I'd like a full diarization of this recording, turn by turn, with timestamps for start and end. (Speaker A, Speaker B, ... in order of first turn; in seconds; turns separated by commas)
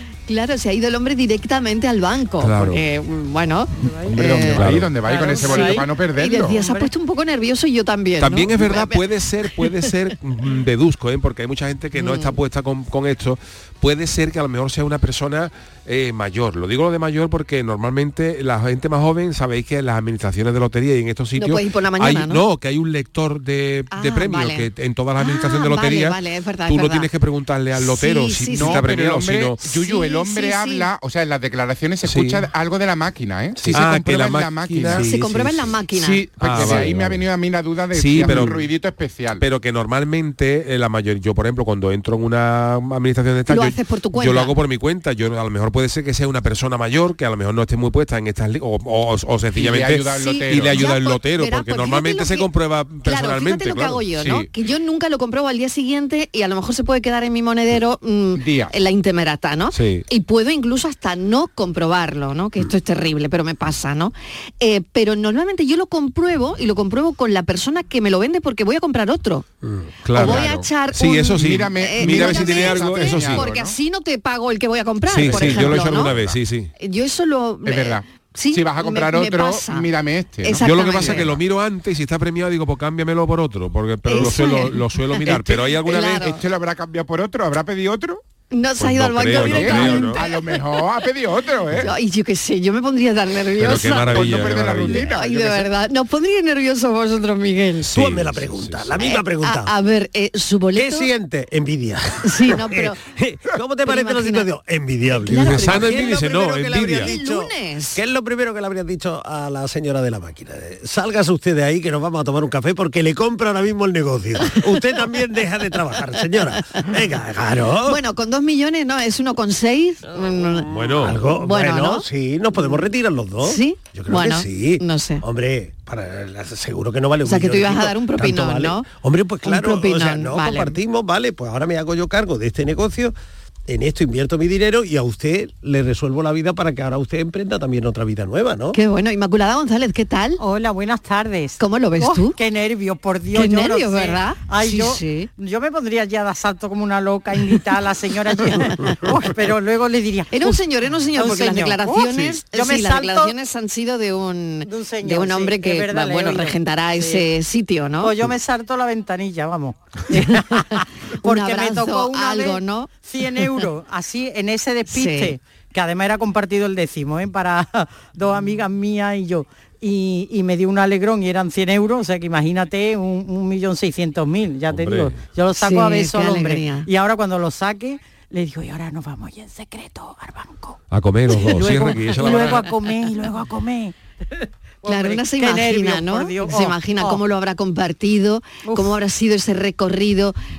Speaker A: 0.3-4.7, Speaker B: 2.4-2.8, Speaker C: 3.8-4.2, Speaker D: 4.1-6.6, Speaker B: 4.5-4.9, Speaker C: 5.0-6.9, Speaker A: 5.4-9.7, Speaker B: 8.2-29.6, Speaker A: 11.9-12.4, Speaker A: 21.4-22.4, Speaker A: 23.9-24.7, Speaker A: 25.2-27.1, Speaker A: 27.8-28.8, Speaker D: 28.5-35.1, Speaker A: 29.6-30.9, Speaker B: 32.0-32.5, Speaker B: 33.7-37.2, Speaker A: 34.9-36.9, Speaker D: 36.0-39.4, Speaker B: 37.9-38.7, Speaker B: 39.4-54.0, Speaker A: 43.5-44.5, Speaker D: 49.5-50.8, Speaker A: 50.2-52.5, Speaker A: 53.0-69.5, Speaker D: 54.1-54.5, Speaker D: 58.4-58.7, Speaker B: 59.7-60.0, Speaker E: 69.6-69.9, Speaker B: 70.0-70.4, Speaker D: 70.2-70.7, Speaker A: 70.2-76.2, Speaker B: 71.0-73.5, Speaker D: 71.3-73.8, Speaker B: 75.1-76.7, Speaker D: 75.2-76.4, Speaker A: 76.8-79.9, Speaker D: 77.7-81.3, Speaker A: 80.4-81.3, Speaker B: 80.6-86.4, Speaker A: 84.0-86.4, Speaker D: 85.9-88.2, Speaker A: 88.5-90.6, Speaker B: 88.8-90.2, Speaker D: 89.3-91.9, Speaker A: 91.8-98.0, Speaker B: 93.6-95.2, Speaker D: 93.8-95.7, Speaker E: 97.9-99.7, Speaker B: 97.9-99.0, Speaker A: 99.0-101.1, Speaker E: 100.8-118.0, Speaker A: 102.2-103.0, Speaker A: 103.8-104.5, Speaker A: 105.1-106.2, Speaker B: 105.3-107.2, Speaker A: 107.0-108.0, Speaker A: 117.9-120.7, Speaker E: 120.4-133.1, Speaker B: 120.7-121.2, Speaker A: 121.3-122.1, Speaker A: 123.4-125.2, Speaker A: 127.2-128.9, Speaker A: 129.4-130.8, Speaker E: 133.7-138.8, Speaker A: 138.7-140.4, Speaker C: 140.4-150.6, Speaker A: 141.6-142.4, Speaker A: 143.3-145.3, Speaker A: 150.3-158.3, Speaker C: 151.1-153.3, Speaker C: 154.7-157.3, Speaker C: 158.0-180.8, Speaker A: 161.2-162.9, Speaker A: 164.9-165.4, Speaker B: 174.7-175.2, Speaker A: 175.6-176.9, Speaker B: 180.9-182.7, Speaker C: 181.4-183.9, Speaker C: 184.8-187.2, Speaker A: 184.8-190.4, Speaker C: 188.6-189.0